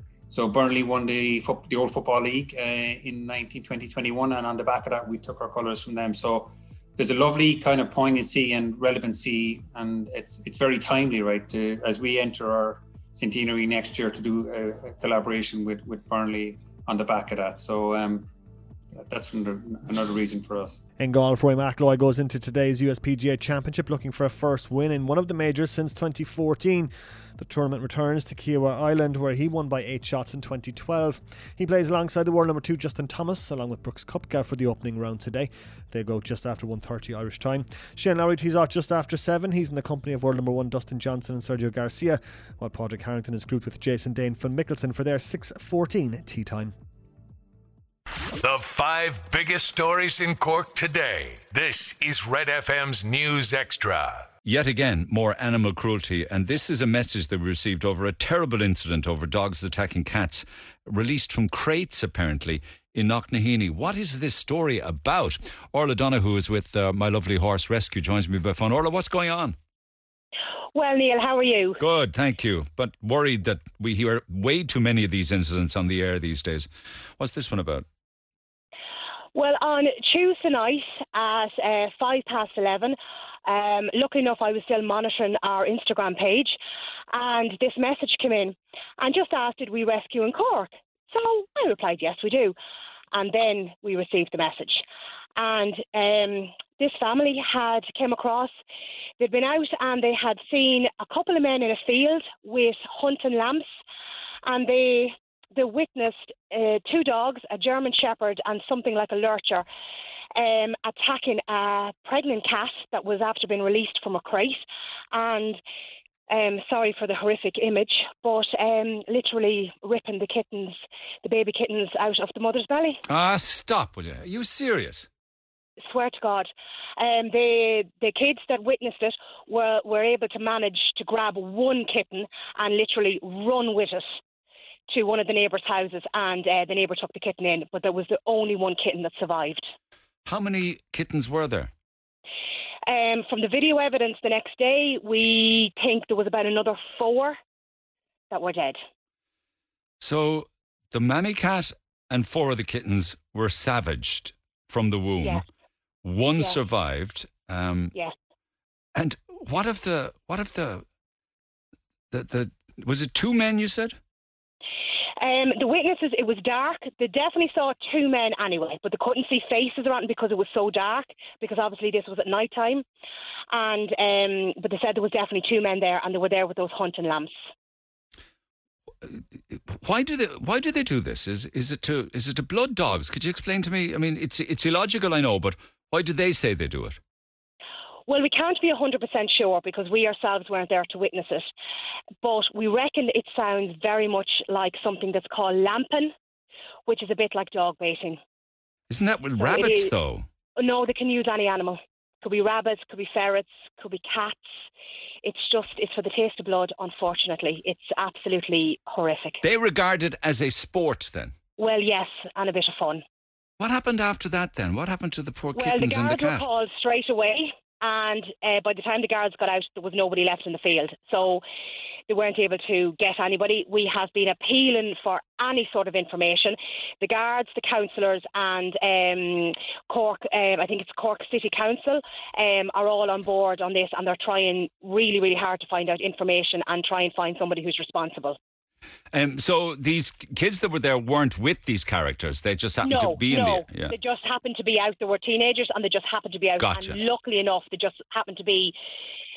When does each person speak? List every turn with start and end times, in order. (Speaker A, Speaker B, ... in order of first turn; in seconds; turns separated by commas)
Speaker A: 0.3-18.3, Speaker A: 18.9-20.8, Speaker B: 21.0-46.7, Speaker C: 48.4-54.3, Speaker D: 54.4-69.5, Speaker E: 70.7-71.8, Speaker D: 71.8-77.8, Speaker E: 79.3-86.5, Speaker E: 87.1-92.5, Speaker E: 93.1-94.8, Speaker E: 95.3-98.5, Speaker E: 99.2-103.6, Speaker E: 104.4-109.7, Speaker E: 110.3-115.6, Speaker E: 116.3-123.0, Speaker D: 123.1-125.1, Speaker E: 125.8-134.1, Speaker E: 134.9-139.6, Speaker D: 140.2-141.7, Speaker E: 142.8-147.3, Speaker E: 148.3-148.8, Speaker D: 150.0-155.4, Speaker D: 156.0-157.9, Speaker D: 158.9-160.8, Speaker D: 162.1-164.0, Speaker E: 165.2-172.8, Speaker E: 173.5-177.3, Speaker D: 179.0-187.0, Speaker E: 188.1-191.5, Speaker E: 192.2-196.1, Speaker E: 196.9-198.2, Speaker D: 198.9-200.3, Speaker E: 199.3-199.9, Speaker E: 200.6-204.4, Speaker E: 205.2-209.4, Speaker D: 209.4-211.3, Speaker E: 211.6-213.0, Speaker D: 213.6-216.4, Speaker E: 215.5-221.4, Speaker E: 222.1-238.4, Speaker D: 239.1-243.9, Speaker E: 242.8-248.7, Speaker D: 246.6-247.0